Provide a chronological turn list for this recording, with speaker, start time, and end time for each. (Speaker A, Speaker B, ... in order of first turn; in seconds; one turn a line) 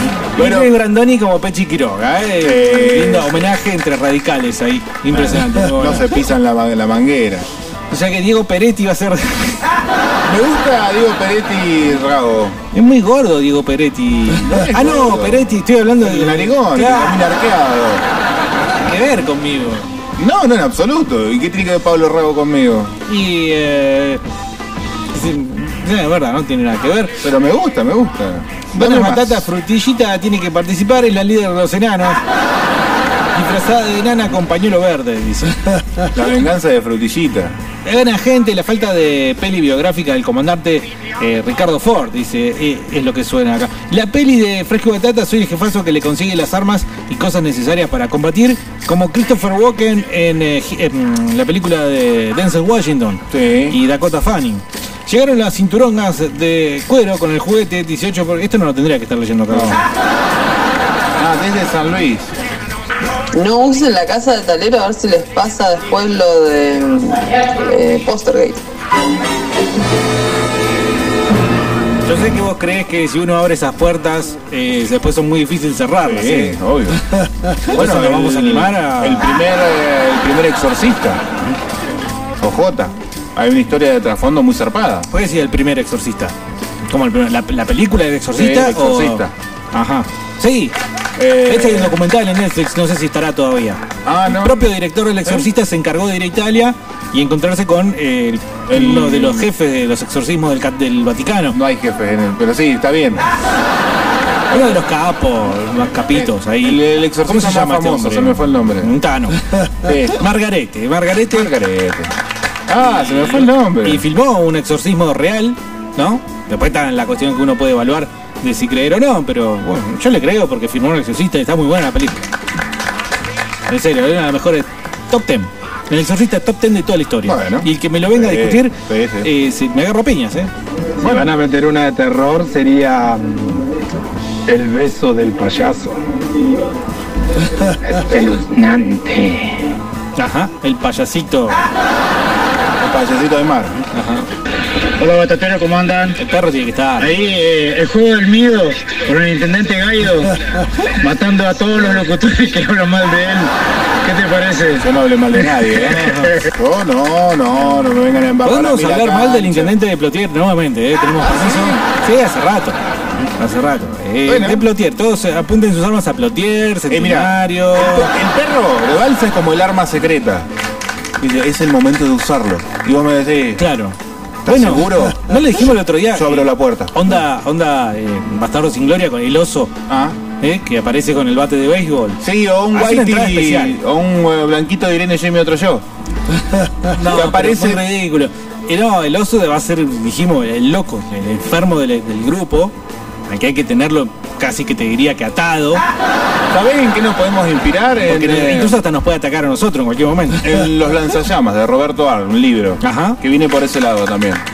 Speaker A: 0.3-0.7
Speaker B: 0.4-6.1
Speaker A: 2.4-3.5
Speaker A: 5.1-7.5
Speaker B: 7.9-9.6
Speaker A: 10.2-12.6
Speaker B: 12.7-17.3
Speaker A: 14.3-18.0
Speaker B: 18.7-19.9
Speaker A: 20.2-22.9
Speaker B: 23.1-24.2
Speaker B: 25.1-27.2
Speaker A: 27.2-29.5
Speaker B: 28.8-32.2
Speaker B: 33.3-35.6
Speaker A: 36.1-37.5
Speaker B: 37.9-59.9
Speaker A: 53.3-53.8
Speaker A: 59.5-59.8
Speaker A: 61.2-62.3
Speaker C: 63.3-68.6
Speaker B: 72.1-76.5
Speaker A: 76.0-77.0
Speaker A: 77.7-81.2
Speaker B: 77.7-79.4
Speaker A: 82.4-85.1
Speaker B: 85.1-86.3
Speaker B: 86.9-90.8
Speaker A: 88.3-89.3
Speaker A: 91.2-92.0
Speaker B: 91.5-101.6
Speaker A: 94.0-94.7
Speaker A: 98.7-99.5
Speaker A: 101.5-103.3
Speaker A: 104.5-104.8
Speaker B: 104.5-109.4
Speaker A: 106.1-108.9
Speaker A: 109.8-110.2
Speaker B: 110.2-111.5
Speaker A: 111.3-112.1
Speaker A: 112.7-114.0
Speaker B: 112.8-122.3
Speaker B: 123.7-130.5
Speaker A: 127.2-129.3
Speaker A: 131.0-131.3
Speaker D: 131.0-133.6
Speaker D: 134.5-136.0
Speaker B: 140.2-141.7
Speaker A: 142.8-143.8
Speaker B: 143.9-144.3
Speaker E: 145.0-146.1
Speaker B: 146.2-147.1
Speaker E: 147.0-150.3
Speaker E: 151.0-153.5
Speaker E: 154.1-154.8
Speaker A: 154.8-159.7
Speaker B: 155.8-156.3
Speaker B: 158.4-162.8
Speaker A: 161.2-161.8
Speaker B: 163.4-168.1
Speaker A: 164.2-164.7
Speaker A: 166.9-170.5
Speaker A: 171.2-173.6
Speaker B: 173.6-174.0
Speaker A: 174.4-177.2
Speaker B: 174.5-179.7
Speaker A: 179.9-180.2
Speaker B: 180.4-182.2
Speaker A: 182.2-185.8
Speaker B: 182.7-183.8
Speaker B: 186.9-192.7
Speaker A: 187.0-187.8
Speaker B: 193.3-195.8
Speaker A: 196.5-198.8
Speaker B: 198.1-200.5
Speaker A: 200.4-204.4
Speaker B: 202.8-203.2